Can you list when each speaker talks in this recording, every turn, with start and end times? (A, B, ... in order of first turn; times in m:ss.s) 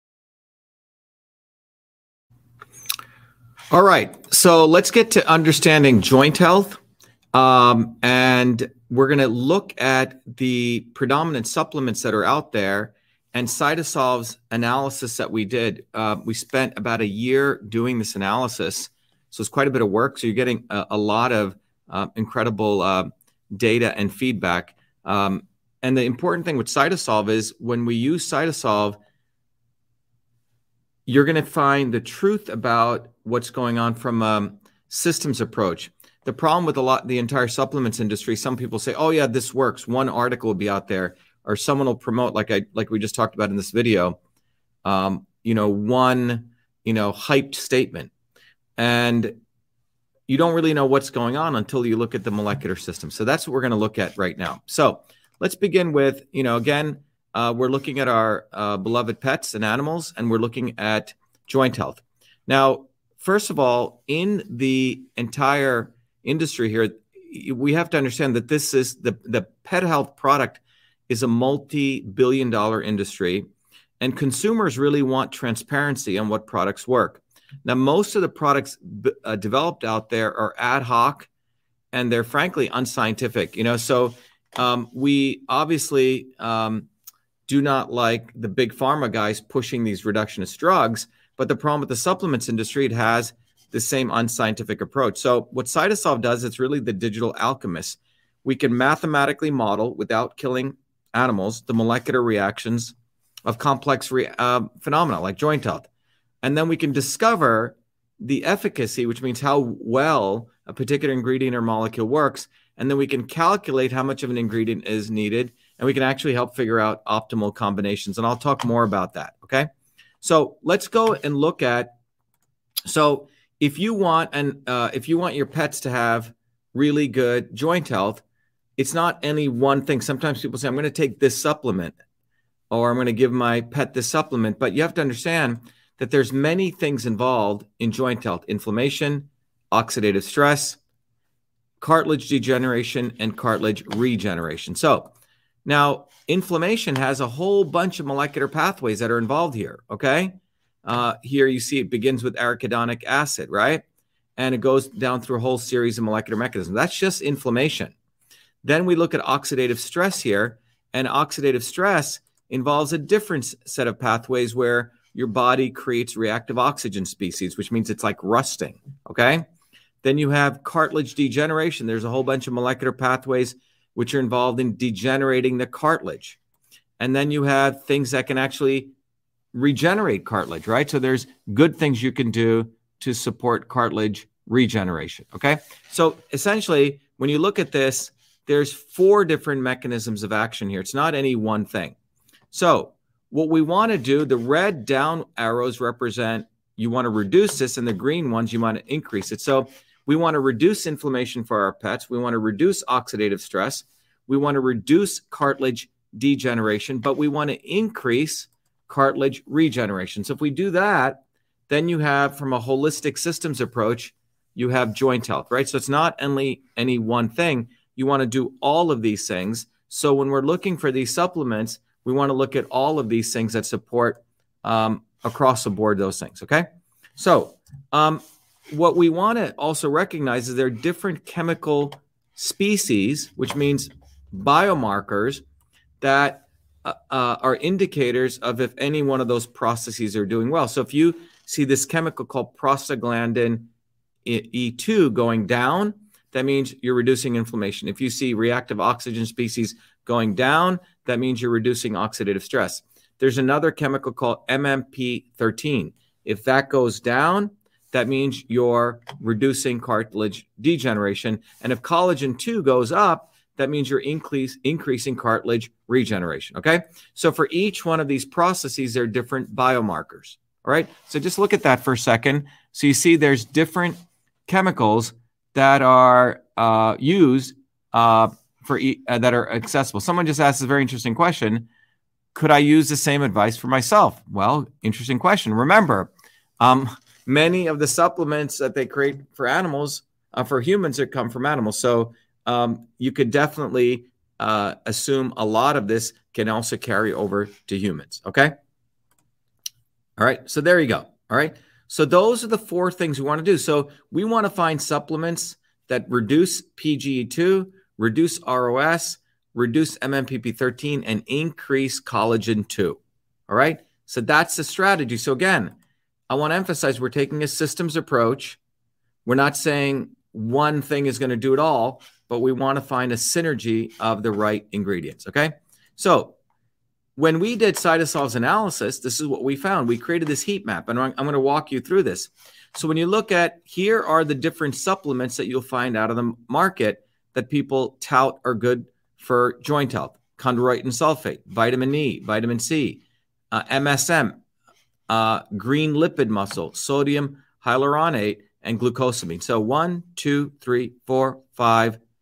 0:03.7-0:06.8 A
0:07.3-0:29.0 A
0:31.1-0:44.2 A
0:44.8-0:48.1 A
0:48.8-0:49.4 A
0:50.3-1:13.5 A
1:14.0-1:21.3 A
1:21.9-1:26.9 A
1:27.5-1:42.9 A
1:43.5-1:45.9 A
1:46.4-1:59.7 A
2:00.2-2:02.0 A
2:02.8-2:08.2 A
2:08.8-2:12.0 A
2:12.7-2:20.8 A
2:21.8-2:25.1 A
2:25.6-2:33.8 A
2:34.4-2:37.9 A
2:38.6-2:49.5 A
2:50.0-2:56.4 A
2:57.0-2:58.9 A
2:59.5-3:12.0 A
3:12.5-3:55.4 A
3:56.0-4:03.7 A
4:04.2-4:41.7 A
4:42.4-4:58.6 A
5:00.2-5:15.8 A
5:16.3-5:18.6 A
5:19.2-5:26.4 A
5:27.2-5:44.4 A
5:45.1-5:52.0 A